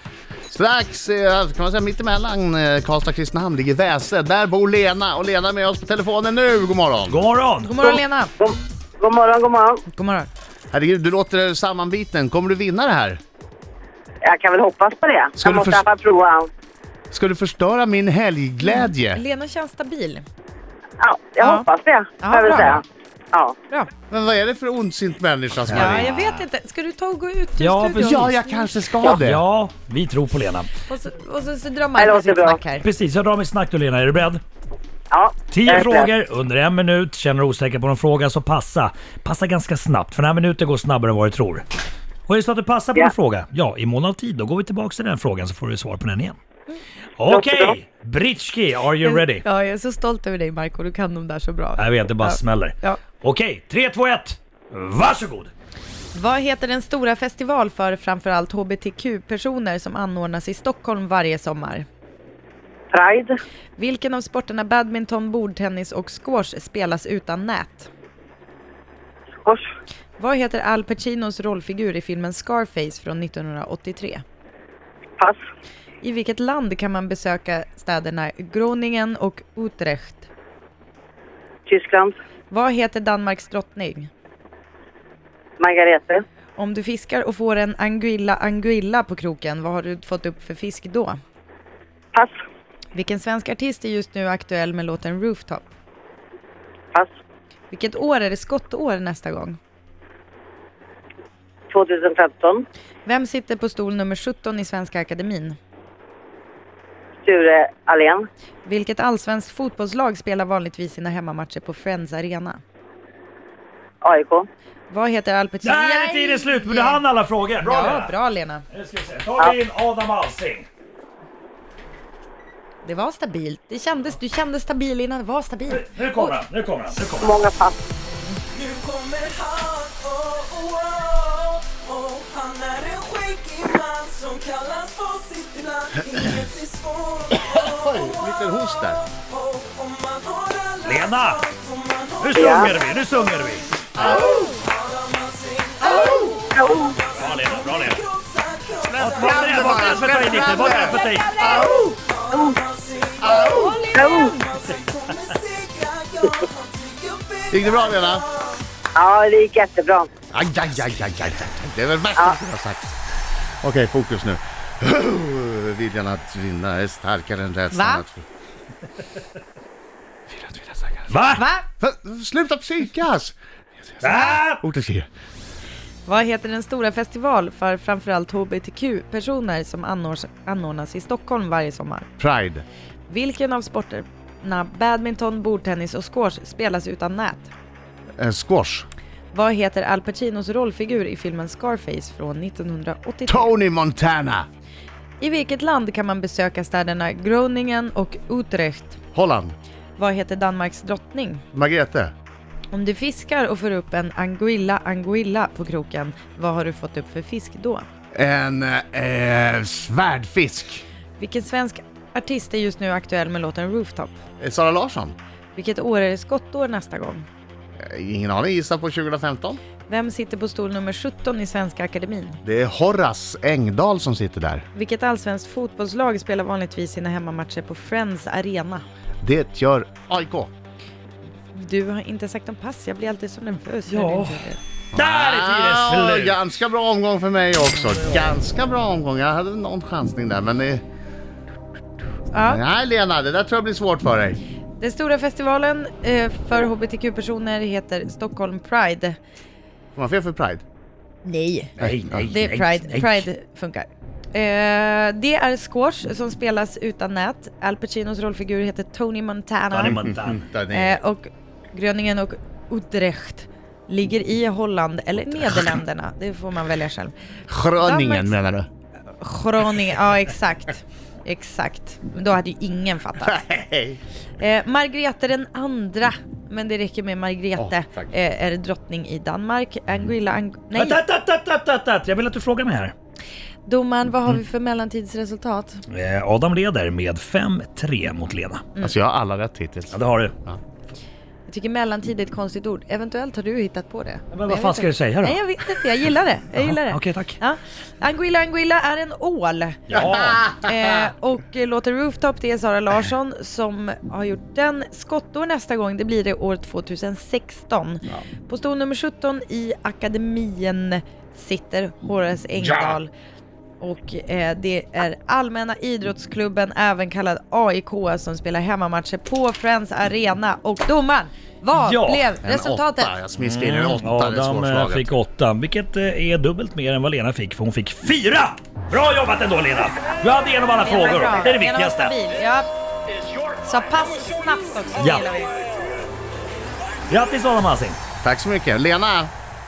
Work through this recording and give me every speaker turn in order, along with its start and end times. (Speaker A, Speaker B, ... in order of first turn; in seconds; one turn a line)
Speaker A: 0.5-7.2
Speaker B: 7.1-7.8
Speaker C: 7.6-8.3
Speaker D: 7.8-9.8
Speaker C: 9.9-10.3
Speaker A: 10.7-13.2
Speaker D: 14.2-16.5
Speaker A: 15.4-15.8
Speaker A: 17.1-19.2
Speaker C: 18.6-20.2
Speaker D: 21.0-23.5
Speaker C: 21.4-21.7
Speaker C: 22.2-22.8
Speaker A: 24.1-26.1
Speaker B: 25.7-26.0
Speaker C: 25.7-28.7
Speaker B: 27.6-28.3
Speaker A: 28.0-29.4
Speaker B: 29.0-30.7
Speaker C: 30.9-32.8
Speaker D: 32.0-32.6
Speaker B: 32.8-34.4
Speaker D: 35.1-36.1
Speaker B: 35.5-41.6
Speaker B: 42.3-46.4
Speaker B: 47.2-49.4
Speaker D: 47.3-47.8
Speaker C: 49.0-53.0
Speaker B: 51.8-55.5
Speaker C: 56.1-61.9
Speaker D: 62.9-63.3
Speaker C: 63.8-67.9
Speaker C: 70.2-74.2
Speaker C: 76.0-80.3
Speaker D: 81.7-82.1
Speaker C: 82.5-84.1
Speaker D: 85.6-86.2
Speaker C: 86.5-91.2
Speaker C: 92.9-95.7
Speaker C: 97.7-99.6
Speaker D: 101.7-102.6
Speaker C: 103.0-105.6
Speaker D: 107.2-108.2
Speaker C: 108.6-112.6
Speaker D: 114.0-114.5
Speaker C: 114.9-117.0
Speaker B: 115.6-118.1
Speaker C: 117.6-118.7
Speaker B: 118.7-120.7
Speaker C: 122.8-126.4
Speaker B: 125.7-127.4
Speaker D: 127.2-127.8
Speaker E: 128.5-138.5
Speaker A: 137.4-139.0
Speaker E: 139.1-142.7
Speaker B: 140.8-141.4
Speaker B: 142.2-143.7
Speaker D: 142.4-142.7
Speaker A: 143.9-144.4
Speaker E: 144.0-158.6
Speaker A: 145.9-146.3
Speaker D: 146.0-147.0
Speaker B: 147.1-148.0
Speaker A: 148.9-151.9
Speaker B: 149.0-151.4
Speaker D: 152.3-152.6
Speaker A: 153.2-153.8
Speaker D: 153.9-154.3
Speaker A: 157.5-158.2
Speaker D: 158.9-160.1
Speaker A: 160.3-162.9
Speaker A: 163.6-168.2
Speaker C: 167.7-168.0
Speaker A: 170.3-171.0
Speaker B: 171.1-171.4
Speaker C: 171.3-171.7
Speaker A: 171.8-175.1
Speaker B: 174.0-174.6
Speaker C: 176.1-182.1
Speaker A: 182.2-182.6
Speaker C: 183.1-187.5
Speaker A: 188.2-188.9
Speaker C: 189.3-193.5
Speaker A: 193.3-194.5
Speaker C: 195.2-199.0
Speaker A: 199.1-199.5
Speaker C: 200.0-201.4
Speaker A: 201.5-202.1
Speaker C: 202.7-207.8
Speaker A: 208.1-210.8
Speaker C: 211.2-214.2
Speaker A: 214.4-215.2
Speaker C: 215.5-217.3
Speaker A: 217.8-219.6
Speaker C: 219.9-222.4
Speaker A: 222.4-224.7
Speaker C: 224.7-228.8
Speaker A: 229.2-230.5
Speaker C: 231.5-234.6
Speaker B: 233.9-236.4
Speaker A: 234.9-240.8
Speaker C: 242.3-242.6
Speaker A: 242.4-244.4
Speaker C: 244.8-249.2
Speaker A: 249.9-250.6
Speaker C: 251.2-251.7
Speaker B: 251.8-253.3
Speaker A: 251.8-252.3
Speaker C: 252.3-260.0
Speaker B: 259.7-260.4
Speaker A: 259.9-261.0
Speaker C: 260.7-267.1
Speaker A: 267.5-268.7
Speaker C: 267.8-268.3
Speaker C: 269.2-273.4
Speaker A: 273.2-274.0
Speaker C: 274.4-281.0
Speaker A: 277.6-278.1
Speaker B: 280.7-282.9
Speaker C: 283.6-285.8
Speaker B: 285.9-288.6
Speaker A: 288.8-290.6
Speaker B: 289.9-290.3
Speaker C: 291.5-313.1
Speaker B: 294.3-295.4
Speaker B: 296.5-297.4
Speaker B: 299.9-300.4
Speaker A: 299.9-300.8
Speaker C: 313.8-323.1
Speaker B: 321.7-322.4
Speaker A: 322.4-325.1
Speaker B: 323.4-332.1
Speaker C: 330.7-332.7
Speaker C: 333.6-335.6
Speaker B: 335.0-335.3
Speaker B: 337.1-338.0
Speaker A: 338.2-339.3